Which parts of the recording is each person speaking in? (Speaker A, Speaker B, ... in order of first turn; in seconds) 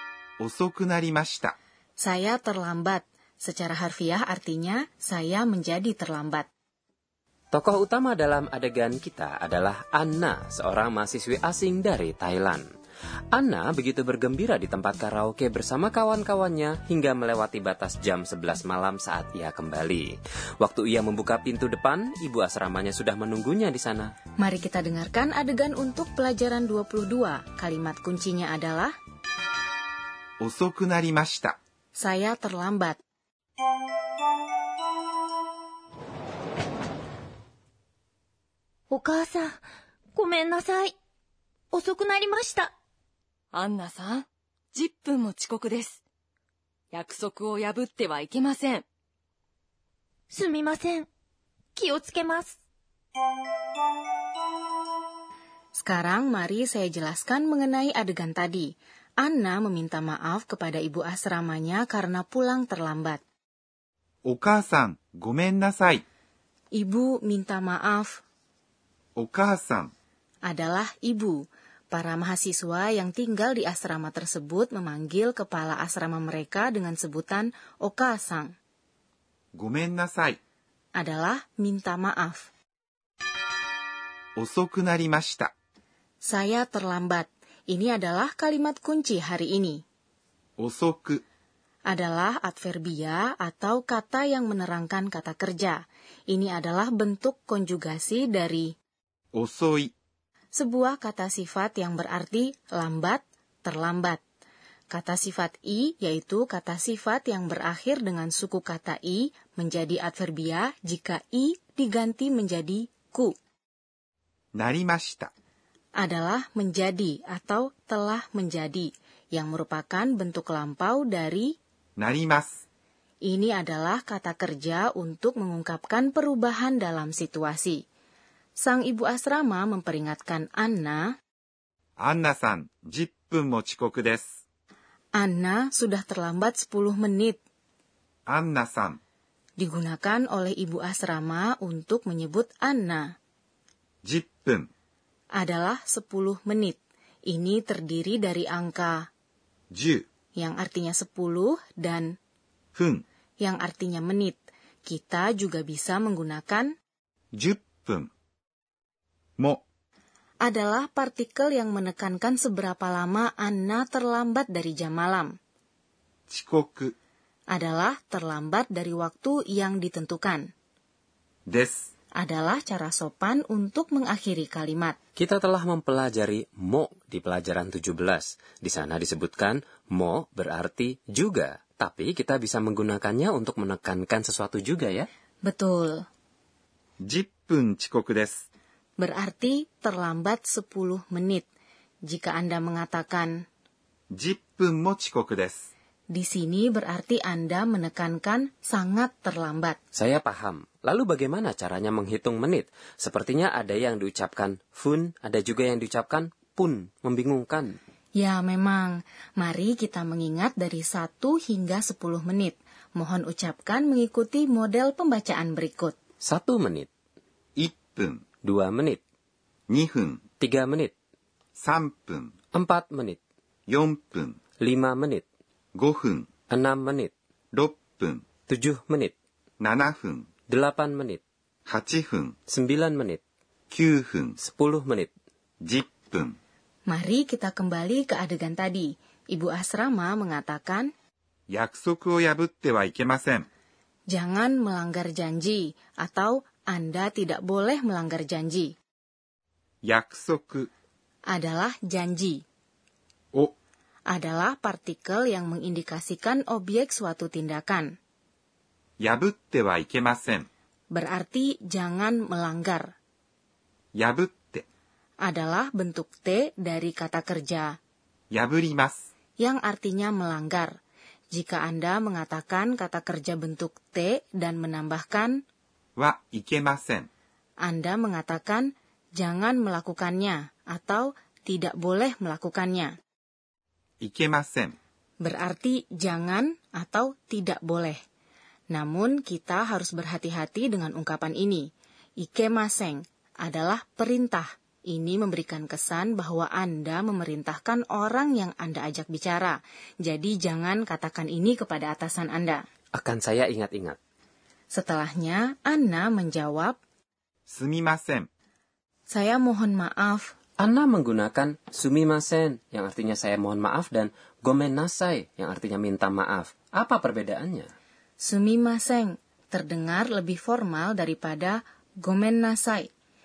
Speaker A: 0.4-1.5, 30.4-31.6, 64.2-66.0, 69.2-69.9, 79.5-80.4, 84.4-85.5, 90.6-91.2, 99.3-99.9, 114.5-115.3, 122.0-122.6, 132.0-134.3, 138.3-139.0, 144.0-144.7, 149.7-150.0, 152.7-153.0, 157.3-158.1, 159.4-159.6, 166.3-166.9, 171.5-171.9, 187.0-188.4, 194.1-195.7, 217.6-218.2, 219.7-220.2, 221.6-222.3, 223.7-224.4, 225.8-226.3, 227.5-228.2, 229.6-230.3, 231.7-232.3, 233.7-234.4, 235.6-236.4, 241.5-243.5, 249.8-250.7, 259.0-260.5, 263.9-264.6, 268.3-269.1, 276.0-277.1, 284.0-284.8, 307.5-308.3
Speaker B: 2.0-6.5, 24.4-28.9, 31.9-33.0, 55.7-63.2, 66.7-68.2, 70.5-78.5, 81.0-82.5, 86.2-89.8, 91.9-98.7, 100.5-104.2, 104.9-113.3, 116.0-121.5, 123.2-127.8, 128.6-131.1, 135.1-137.4, 139.6-143.1, 145.3-149.1, 150.4-152.2, 153.4-156.7, 160.4-165.3, 167.5-170.5, 172.2-175.0, 185.4-186.0, 189.0-191.4, 192.1-193.4, 196.1-199.8, 208.2-215.9, 236.9-240.9, 244.1-248.7, 251.3-252.4, 254.1-257.9, 260.9-262.9, 265.2-267.8, 269.4-270.7, 271.3-275.4, 277.6-282.9, 285.2-288.0, 288.7-302.6, 304.7-306.8, 309.1-310.3, 318.2-322.9
Speaker C: 7.5-12.6, 13.3-24.1, 175.2-185.1, 199.9-207.8, 216.2-216.9, 218.4-219.0, 220.4-220.9, 222.5-223.2, 224.6-225.2, 226.5-227.1, 228.5-229.1, 230.5-231.2, 232.5-233.2, 234.4-235.1, 302.9-304.0, 310.6-317.7
Speaker D: 38.9-39.6, 40.1-40.9, 41.7-42.7, 50.3-51.1, 51.8-52.6
Speaker E: 43.5-46.0, 46.9-48.8